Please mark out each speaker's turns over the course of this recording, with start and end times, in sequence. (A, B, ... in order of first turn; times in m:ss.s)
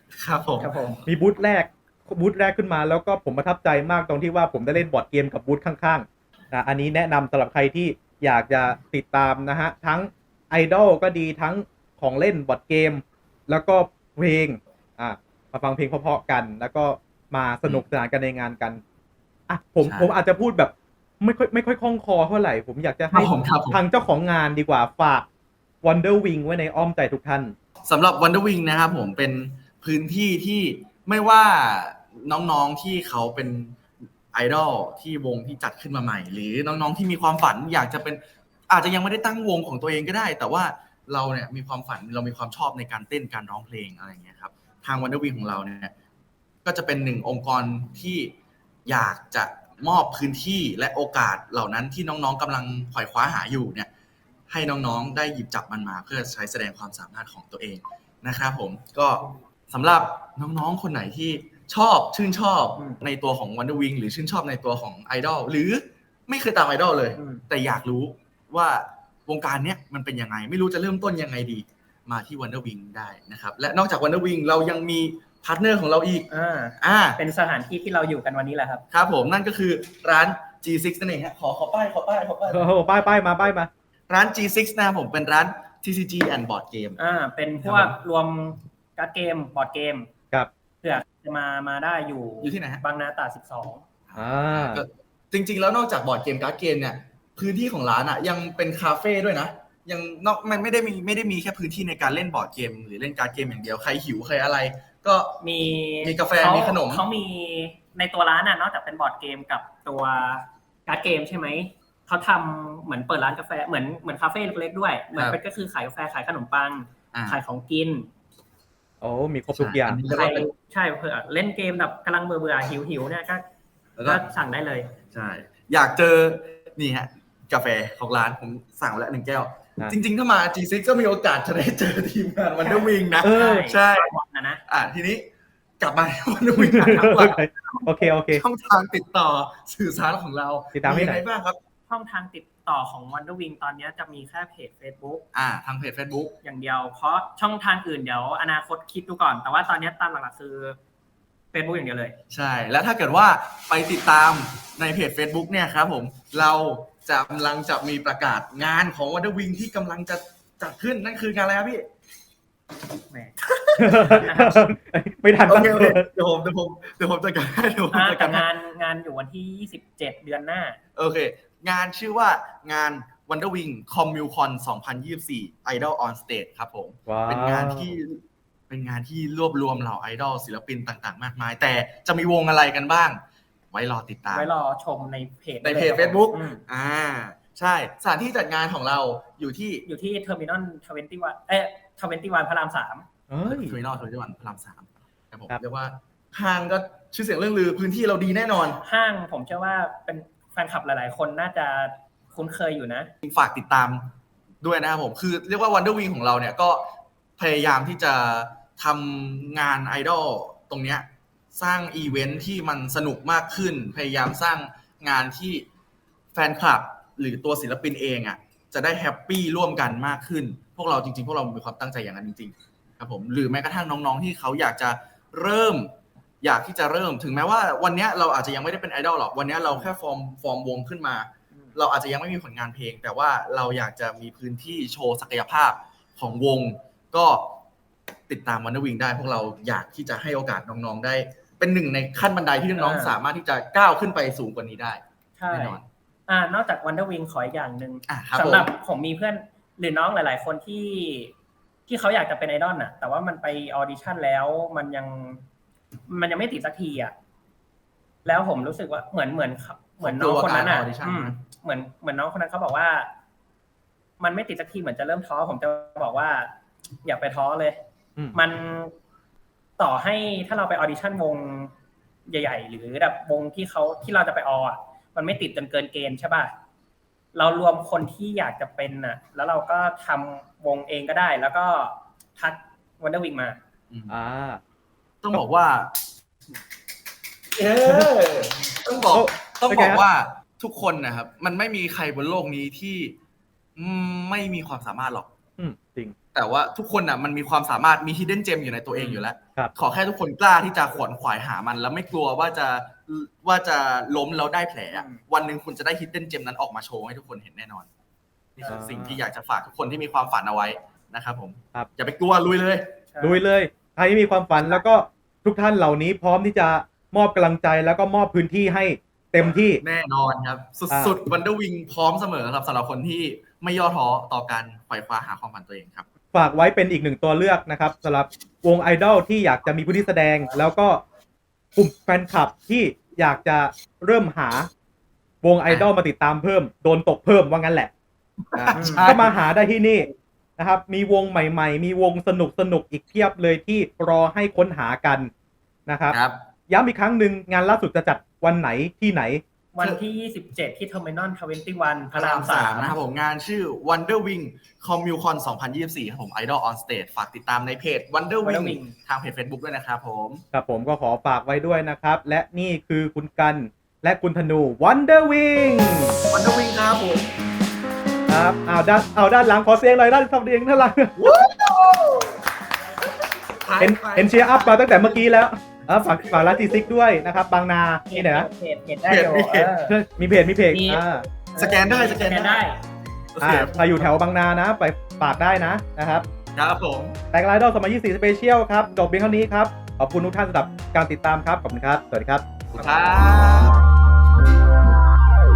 0:00.1-0:00.7 A
0:00.6-0:01.0 B
0:01.0-0:18.8 C
0:19.5-0:25.3 C
0:19.8-0:20.1 A
0:23.1-0:23.8 A
0:25.8-0:27.5 C
0:27.8-0:33.8 A
0:34.3-0:45.9 A
0:46.6-0:48.3 A
0:48.8-0:53.9 A
0:54.5-1:16.3 A
1:07.1-1:07.4 B
1:16.3-1:18.8 B
1:16.8-1:17.2 A
1:18.9-1:22.6 A
1:22.5-1:23.7 C
1:24.1-1:27.0 A
1:27.0-1:30.1 B
1:27.6-1:28.0 A
1:30.8-1:33.8 B
1:32.4-1:32.8 A
1:34.1-1:45.4 A
1:34.2-1:34.8 C
1:45.4-1:58.1 B
1:46.0-1:47.0 A
1:57.1-1:57.4 A
1:59.0-2:00.0 C
1:59.5-2:00.5 A
2:00.1-2:03.4 B
2:04.0-2:04.2 A
2:04.0-2:04.9 B
2:05.1-2:14.1 A
2:12.6-2:14.6 B
2:13.2-2:13.6 C
2:14.7-2:15.3 A
2:15.8-2:21.6 A
2:16.6-2:18.4 C
2:20.7-2:21.2 C
2:21.9-2:25.2 B
2:25.3-2:26.3 A
2:26.4-2:30.8 B
2:31.5-2:32.2 B
2:32.3-2:41.8 A
2:43.1-2:43.3 B
2:43.5-2:44.3 A
2:43.8-2:46.1 C
2:44.2-2:44.6 B
2:45.5-2:48.5 A
2:47.9-2:50.8 B
2:51.0-3:03.2 A
2:57.1-2:57.9 C
3:03.7-3:04.5 A
3:04.3-3:06.6 B
3:05.6-3:09.8 A
3:09.8-3:13.0 B
3:13.3-3:13.7 C
3:13.4-3:18.8 A
3:18.8-3:23.1 B
3:23.2-3:24.1 A
3:24.6-3:35.6 A
3:36.3-3:57.6 A
3:58.3-4:05.8 A
4:02.8-4:03.2 B
4:05.4-4:11.3 B
4:08.1-4:08.7 A
4:11.9-4:15.4 B
4:16.1-4:17.1 B
4:18.2-4:23.1 B
4:20.0-4:21.4 A
4:24.2-4:26.5 B
4:27.0-4:27.8 B
4:28.3-4:28.9 B
4:29.8-4:31.7 B
4:32.3-4:36.5 B
4:37.3-4:43.6 B
4:43.9-4:44.2 A
4:44.1-4:44.6 C
4:45.2-4:45.9 A
4:47.5-4:53.1 A
4:49.1-4:50.0 C
4:53.8-4:55.3 A
4:55.6-4:56.1 C
4:56.3-5:07.9 A
4:59.0-4:59.2 B
5:04.9-5:05.2 B
5:08.6-5:12.9 A
5:08.7-5:09.2 C
5:13.1-5:13.4 B
5:13.2-5:19.8 C
5:19.8-5:26.0 A
5:20.9-5:21.2 C
5:26.3-5:31.0 C
5:31.8-5:34.7 C
5:35.4-5:37.9 C
5:38.5-5:45.3 C
5:38.5-5:39.4 A
5:38.8-5:39.1 B
5:45.8-5:46.2 C
5:46.1-5:46.4 A
5:46.7-5:49.4 C
5:49.7-5:53.0 B
5:52.1-6:00.4 A
5:58.4-5:58.9 B
6:00.5-6:06.2 C
6:06.3-6:07.3 A
6:08.3-6:11.1 C
6:11.2-6:12.4 A
6:13.6-6:15.2 A
6:13.8-6:18.5 C
6:16.2-6:16.7 A
6:18.1-6:20.0 B
6:19.0-6:19.7 A
6:19.8-6:21.2 C
6:20.7-6:22.8 B
6:21.6-6:22.6 A
6:23.3-6:24.1 A
6:23.4-6:26.2 C
6:26.5-6:27.1 A
6:27.3-6:32.4 C
6:32.7-6:33.8 A